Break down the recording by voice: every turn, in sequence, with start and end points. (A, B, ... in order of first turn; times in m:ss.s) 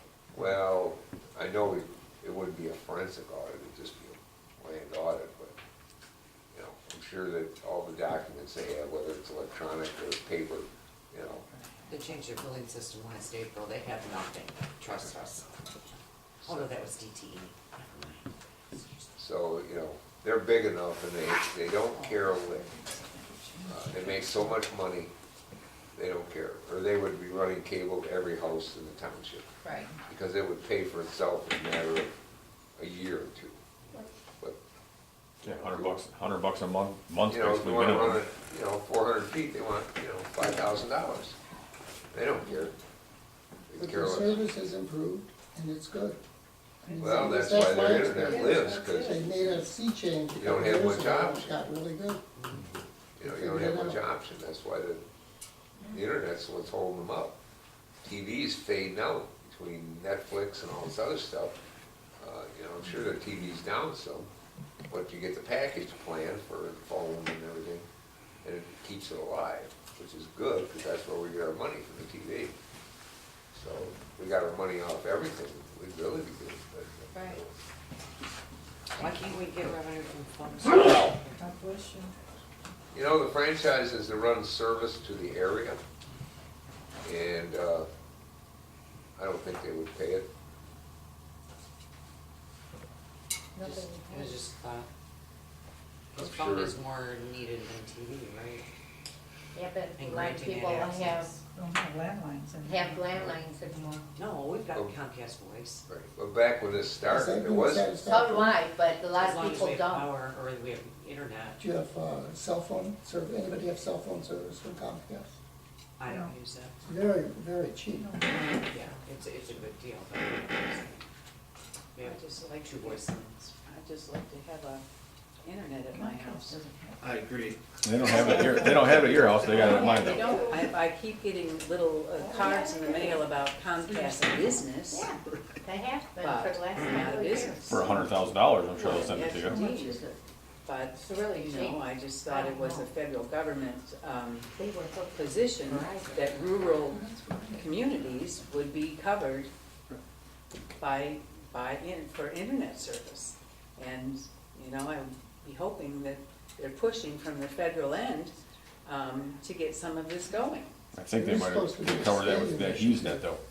0:00.3-0:05.6 A
0:06.5-0:11.4 A
0:11.5-0:12.2 B
0:11.9-0:19.1 C
0:14.9-0:15.2 A
0:16.4-0:16.8 A
0:19.2-0:22.7 A
0:22.1-0:24.4 D
0:23.7-0:25.1 A
0:26.0-0:29.5 A
0:30.1-0:32.1 A
0:32.8-0:33.6 A
0:35.4-0:38.2 E
0:35.4-0:36.0 A
0:37.3-0:41.4 A
0:42.1-0:42.7 A
0:43.7-0:44.4 A
0:43.8-0:46.2 F
0:46.8-0:52.2 F
0:47.0-0:49.2 A
0:47.0-0:47.4 D
0:48.2-0:48.9 D
0:50.4-0:51.6 A
0:52.4-0:52.7 C
0:53.2-0:55.0 A
0:53.2-0:54.0 F
0:55.9-0:57.4 A
0:58.0-1:01.6 A
1:02.2-1:04.3 A
1:04.9-1:07.9 A
1:08.4-1:12.6 A
1:13.5-1:17.5 A
1:17.1-1:17.4 G
1:19.0-1:21.6 C
1:20.9-1:21.1 A
1:21.4-1:22.1 D
1:22.9-1:25.8 A
1:27.0-1:27.9 A
1:29.2-1:30.3 A
1:33.6-1:34.4 G
1:33.6-1:34.9 C
1:36.2-1:36.8 A
1:36.2-1:38.7 C
1:39.5-1:41.4 G
1:40.0-1:41.3 C
1:41.0-1:43.3 D
1:42.6-1:44.0 G
1:44.2-1:45.8 C
1:45.9-1:47.9 A
1:47.1-1:48.6 F
1:48.0-1:50.1 G
1:49.2-1:51.6 C
1:51.6-1:55.4 F
1:56.0-1:56.7 C
1:56.1-1:56.4 D
1:56.8-1:58.2 F
1:58.0-1:58.9 D
1:58.5-2:01.1 C
2:02.0-2:03.2 C
2:02.0-2:04.8 B
2:05.4-2:06.6 B
2:05.9-2:07.0 D
2:07.0-2:09.8 H
2:07.8-2:10.3 E
2:09.3-2:09.6 D
2:09.5-2:15.1 B
2:09.7-2:10.6 G
2:12.2-2:13.2 G
2:14.9-2:17.9 G
2:16.2-2:17.9 B
2:17.6-2:19.7 E
2:18.7-2:20.0 B
2:19.4-2:20.2 G
2:20.6-2:24.5 B
2:21.0-2:22.9 G
2:24.6-2:26.4 G
2:25.1-2:29.5 B
2:30.8-2:40.7 B
2:40.9-2:43.4 E
2:41.2-2:43.3 F